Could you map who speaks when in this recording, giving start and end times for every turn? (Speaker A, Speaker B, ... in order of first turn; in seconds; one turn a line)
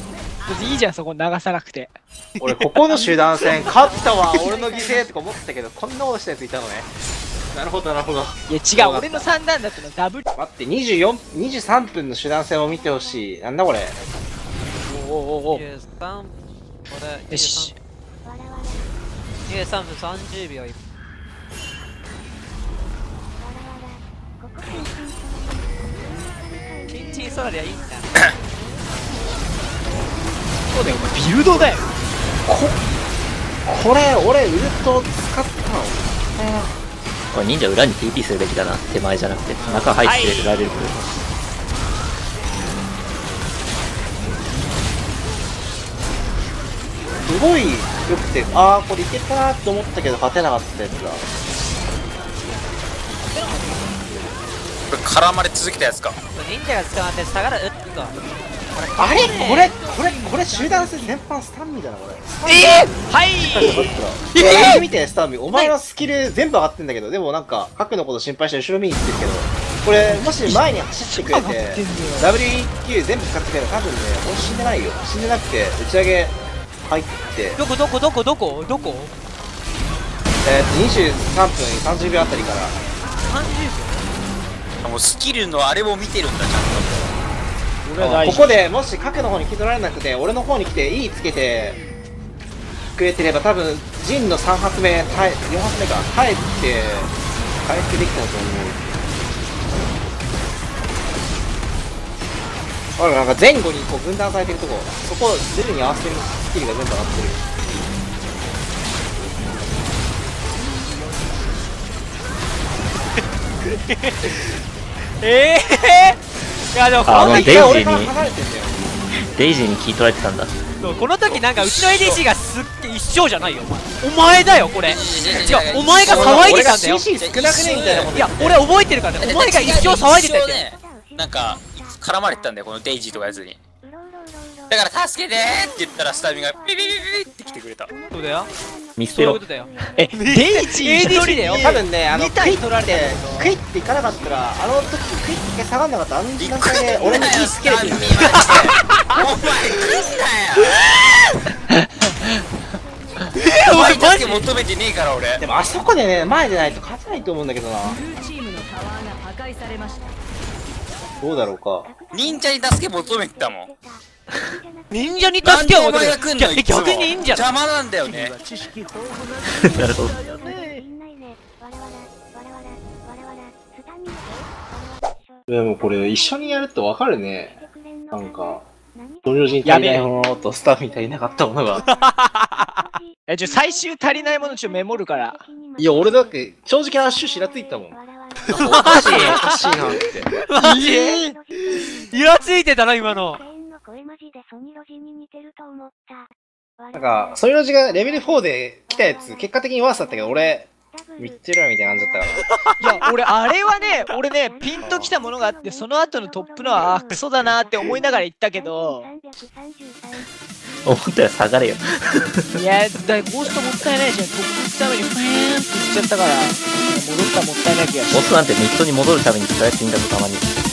Speaker A: 0.4-5.0
Speaker B: 2.4-6.9
Speaker B: 7.5-9.2
Speaker A: 8.5-10.2
Speaker B: 10.3-14.0
Speaker A: 14.8-15.6
Speaker C: 15.5-16.3
Speaker C: 16.9-17.7
Speaker A: 17.3-17.7
Speaker C: 19.5-20.8
Speaker C: 26.9-28.1
Speaker A: 30.7-31.8
Speaker B: 32.5-32.8
Speaker B: 33.6-36.7
Speaker D: 37.3-41.0
Speaker A: 40.0-40.6
Speaker B: 47.2-51.2
Speaker A: 53.4-53.8
Speaker E: 54.9-56.2
Speaker C: 56.3-58.2
Speaker C: 58.7-59.8
Speaker B: 59.0-77.6
Speaker A: 62.5-64.0
Speaker C: 64.3-64.8
Speaker E: 64.3-64.8
Speaker A: 70.0-72.3
Speaker C: 77.6-79.1
Speaker B: 80.4-82.8
Speaker C: 83.0-84.1
Speaker E: 84.8-87.1
Speaker A: 87.8-88.5
Speaker B: 88.0-91.8
Speaker B: 93.0-98.9
Speaker B: 103.0-107.4
Speaker C: 113.6-114.6
Speaker C: 115.2-116.2
Speaker C: 116.7-117.7
Speaker D: 117.0-118.1
Speaker B: 117.1-118.8
Speaker D: 119.2-120.5
Speaker C: 120.8-127.0
Speaker E: 121.3-122.2
Speaker E: 124.8-128.2
Speaker B: 126.0-128.6
Speaker C: 128.1-130.6
Speaker E: 129.2-133.6
Speaker E: 134.7-137.9
Speaker C: 138.1-138.5
Speaker D: 139.0-139.4
Speaker C: 139.1-141.6
Speaker A: 140.0-143.5
Speaker B: 141.6-148.5
Speaker E: 146.4-151.2
Speaker C: 148.3-148.7
Speaker A: 151.7-152.4
Speaker C: 153.3-154.5
Speaker E: 153.7-155.4
Speaker B: 155.4-158.0
Speaker B: 161.2-161.9
Speaker E: 162.1-163.7
Speaker C: 164.9-167.4
Speaker E: 165.4-168.4
Speaker D: 169.4-170.3
Speaker A: 170.3-170.9
Speaker B: 175.5-178.7
Speaker B: 179.2-181.8
Speaker A: 179.6-180.1
Speaker C: 181.9-182.6
Speaker A: 183.3-185.4
Speaker B: 185.8-190.3
Speaker C: 188.5-189.4
Speaker E: 188.5-190.2
Speaker A: 189.3-189.6
Speaker C: 190.5-191.2
Speaker A: 190.6-191.4
Speaker C: 192.1-193.4
Speaker B: 196.9-202.5
Speaker C: 202.6-203.0
Speaker A: 202.8-209.1
Speaker B: 204.8-205.1
Speaker D: 210.8-212.6
Speaker A: 212.5-218.3
Speaker D: 218.1-220.5